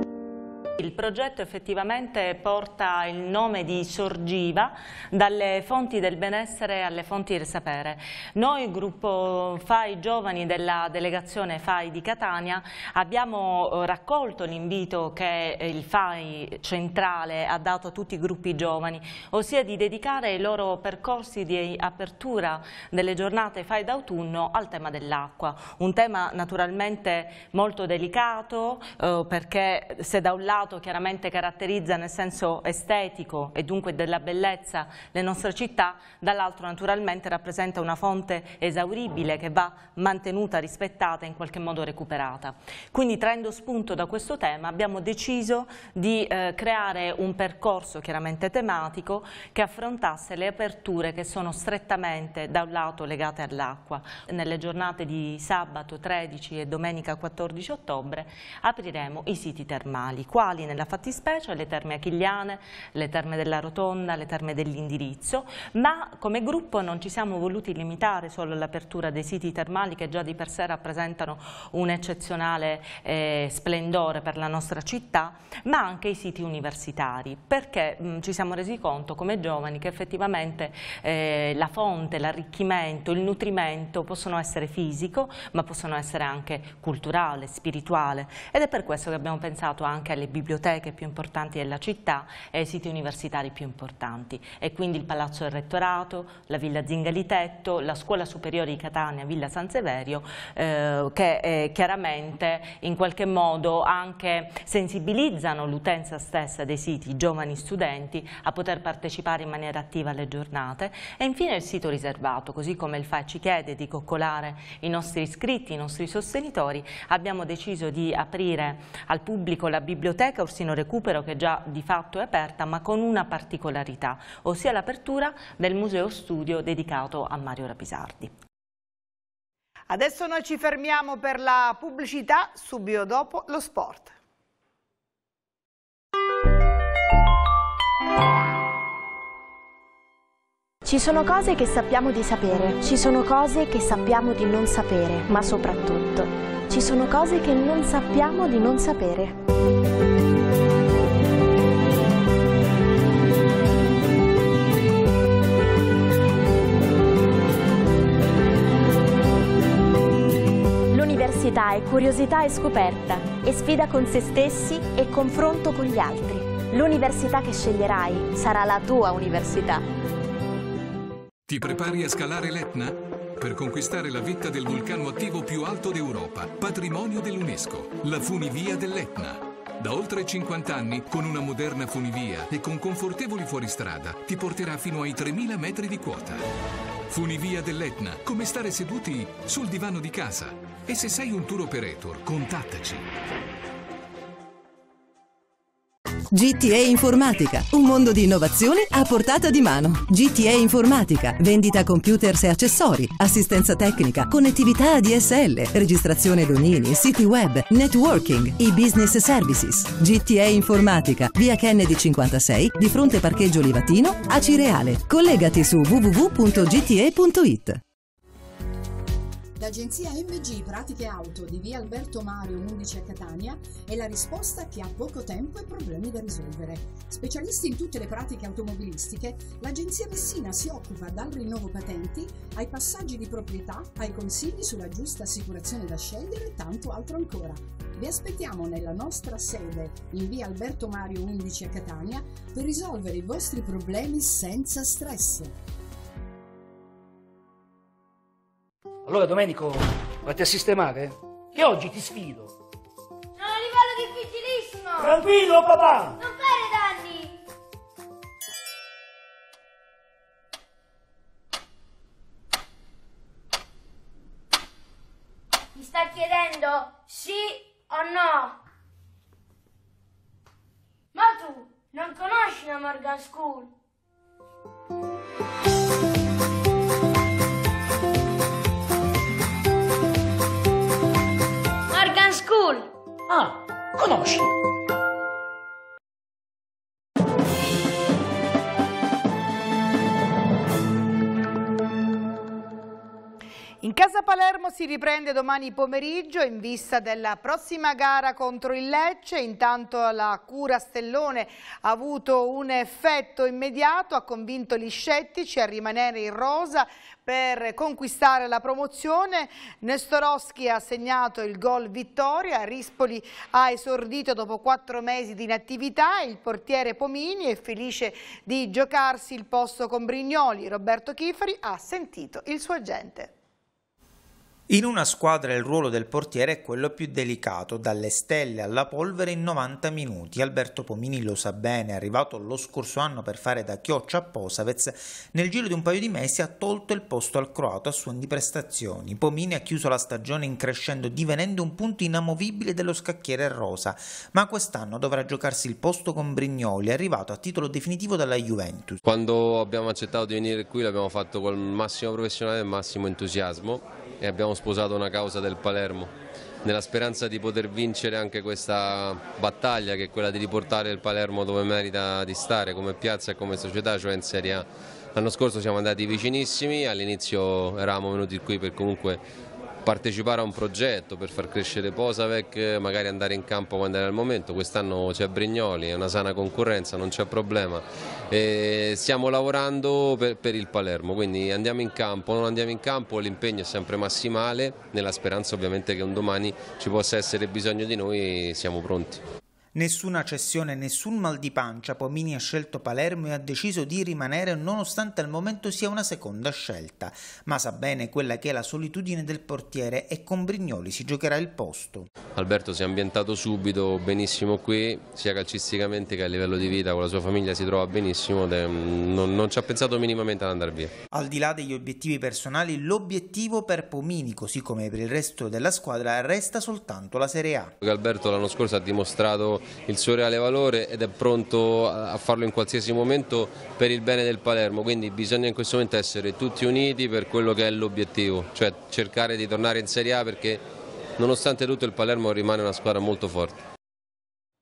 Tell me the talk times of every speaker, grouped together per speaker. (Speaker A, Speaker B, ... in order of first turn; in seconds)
Speaker A: 0.8-128.3
Speaker B: 129.9-134.1, 293.8-323.3
Speaker C: 140.8-149.3, 160.9-169.8
Speaker D: 171.5-186.4, 187.1-193.1
Speaker E: 196.3-217.8
Speaker F: 219.6-245.5
Speaker G: 249.1-252.5, 255.0-256.2, 283.3-284.5
Speaker H: 253.4-255.2, 256.2-257.4, 265.7-268.6, 271.1-273.7, 281.9-282.9
Speaker I: 324.7-349.0, 389.7-402.1, 411.1-417.7
Speaker J: 349.0-356.1, 356.6-369.2, 369.8-389.2, 402.3-410.9, 417.8-430.6, 431.2-433.6